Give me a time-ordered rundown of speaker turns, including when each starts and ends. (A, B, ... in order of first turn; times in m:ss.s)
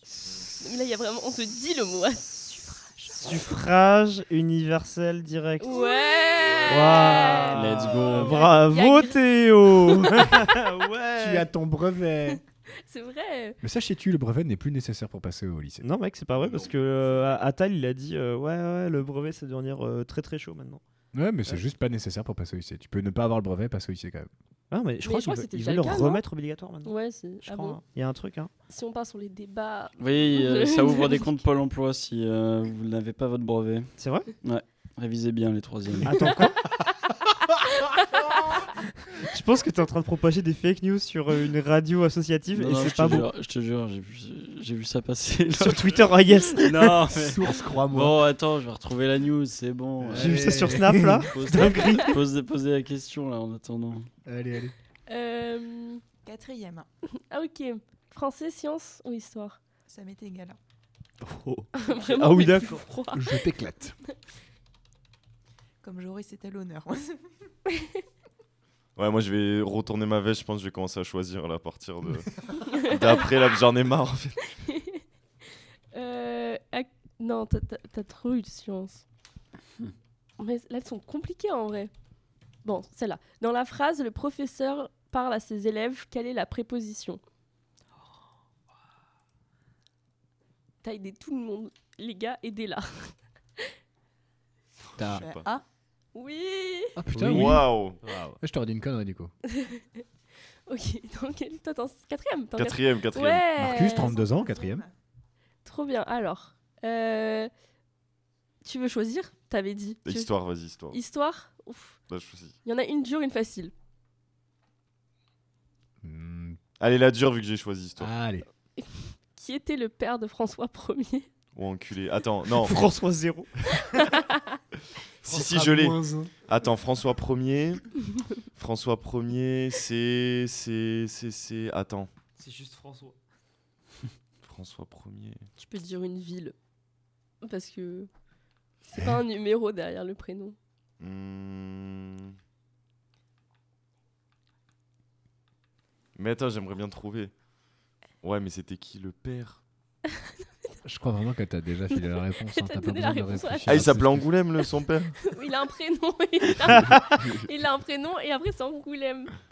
0:00.2-0:00.4 A
0:00.6-0:02.8 B
0:03.0-0:05.8 A
0:05.6-0:10.5 B
0:06.6-0:11.5 A
0:07.5-0:08.5 C
0:11.2-0:12.4 D
0:12.3-0:13.6 B
0:13.6-0:15.8 D
0:15.8-0:20.8 A
0:16.3-0:17.4 E
0:21.1-0:24.3 D
0:24.7-0:28.5 A
0:25.0-0:26.2 B
0:26.8-0:27.8 B
0:28.7-0:31.4 B
0:30.0-0:36.4 C
0:34.0-0:34.3 A
0:36.0-0:36.7 A
0:39.1-0:43.3 A
0:42.5-0:54.1 C
0:45.6-0:46.9 A
0:47.0-0:48.2 D
0:50.0-0:51.3 D
0:50.1-0:52.1 A
0:54.2-0:54.7 D
0:55.1-0:56.0 B
0:56.2-0:56.9 F
0:57.2-0:59.6 B
0:59.9-1:00.6 F
1:01.2-1:02.9 A
1:01.8-1:03.4 B
1:03.1-1:04.0 D
1:05.8-1:07.3 F
1:09.0-1:14.4 E
1:12.7-1:13.2 B
1:14.6-1:15.0 B
1:15.9-1:19.0 B
1:20.4-1:21.9 B
1:22.6-1:27.2 B
1:30.8-1:33.7 B
1:35.0-1:35.2 D
1:35.0-1:35.5 E
1:35.1-1:35.6 F
1:36.1-1:37.0 B
1:37.0-1:39.3 D
1:37.2-1:38.0 E
1:38.0-1:38.4 A
1:39.5-1:40.0 B
1:40.7-1:44.2 B
1:42.6-1:43.6 E
1:43.6-1:44.8 D
1:43.7-1:44.9 F
1:45.6-1:47.5 B
1:48.6-1:50.3 B
1:50.0-1:51.0 E
1:50.9-1:52.0 B
1:52.1-1:52.6 E
1:52.6-1:53.7 B
1:56.0-1:56.6 D
1:56.8-1:58.1 E
1:58.0-1:58.4 D
1:58.8-2:01.3 B
2:01.6-2:02.9 E
2:02.6-2:03.5 A
2:03.9-2:04.6 B
2:05.2-2:07.9 E
2:05.2-2:06.3 D
2:08.5-2:12.1 E
2:12.4-2:13.2 A
2:14.4-2:15.4 E
2:15.6-2:16.5 B
2:17.4-2:18.1 B
2:18.9-2:20.6 B
2:21.0-2:22.3 E
2:26.2-2:27.3 E
2:28.2-2:29.6 E
2:30.8-2:34.3 D
2:31.9-2:33.9 B
2:33.7-2:35.2 E
2:35.2-2:39.3 B
2:36.8-2:37.2 A